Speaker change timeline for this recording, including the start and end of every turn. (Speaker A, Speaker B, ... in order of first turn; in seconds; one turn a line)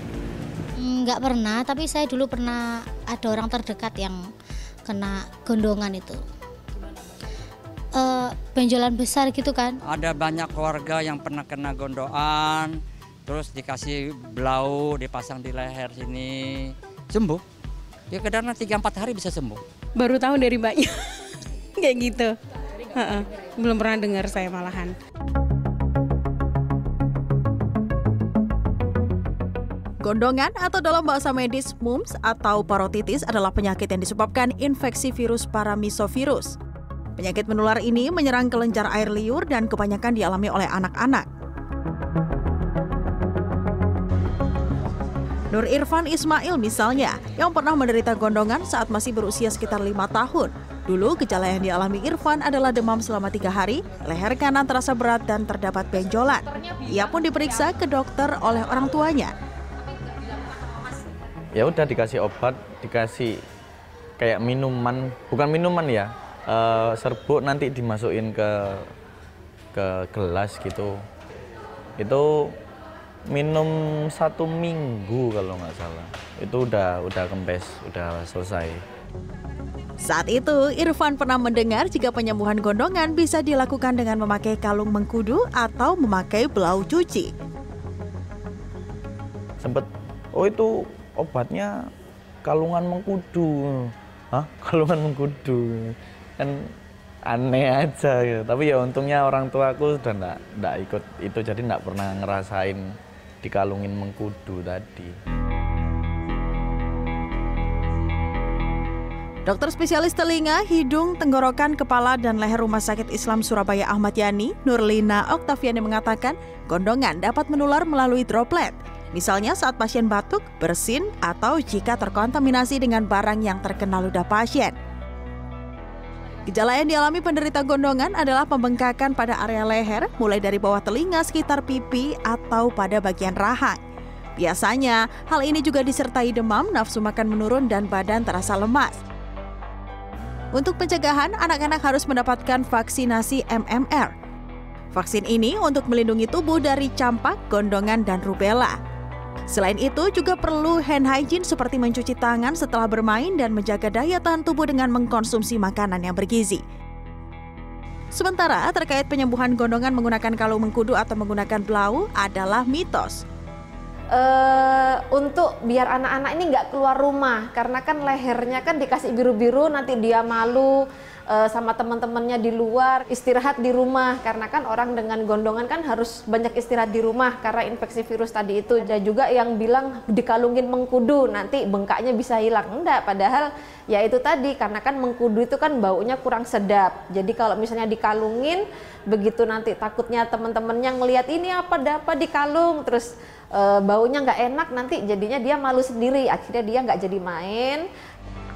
Speaker A: 0.8-4.3
Speaker A: 4.9-6.2
Speaker A: 7.9-9.7
Speaker B: 9.8-17.4
Speaker B: 18.1-19.6
Speaker C: 20.0-20.9
Speaker C: 21.8-22.3
Speaker C: 22.9-24.9
Speaker D: 30.0-36.6
Speaker D: 37.2-41.3
Speaker D: 45.5-59.3
Speaker E: 61.5-63.3
Speaker E: 64.2-68.9
Speaker E: 69.7-71.0
Speaker E: 72.0-72.5
Speaker E: 73.3-78.8
Speaker D: 80.0-87.3
Speaker E: 89.6-91.7
Speaker E: 92.4-96.6
Speaker E: 97.3-105.1
Speaker D: 109.5-124.8
Speaker D: 126.5-133.8
Speaker D: 134.4-139.0
Speaker D: 140.5-144.1
Speaker D: 144.9-148.8
Speaker D: 149.5-156.6
Speaker D: 158.1-163.2
Speaker F: 164.1-170.8
Speaker F: 171.3-197.8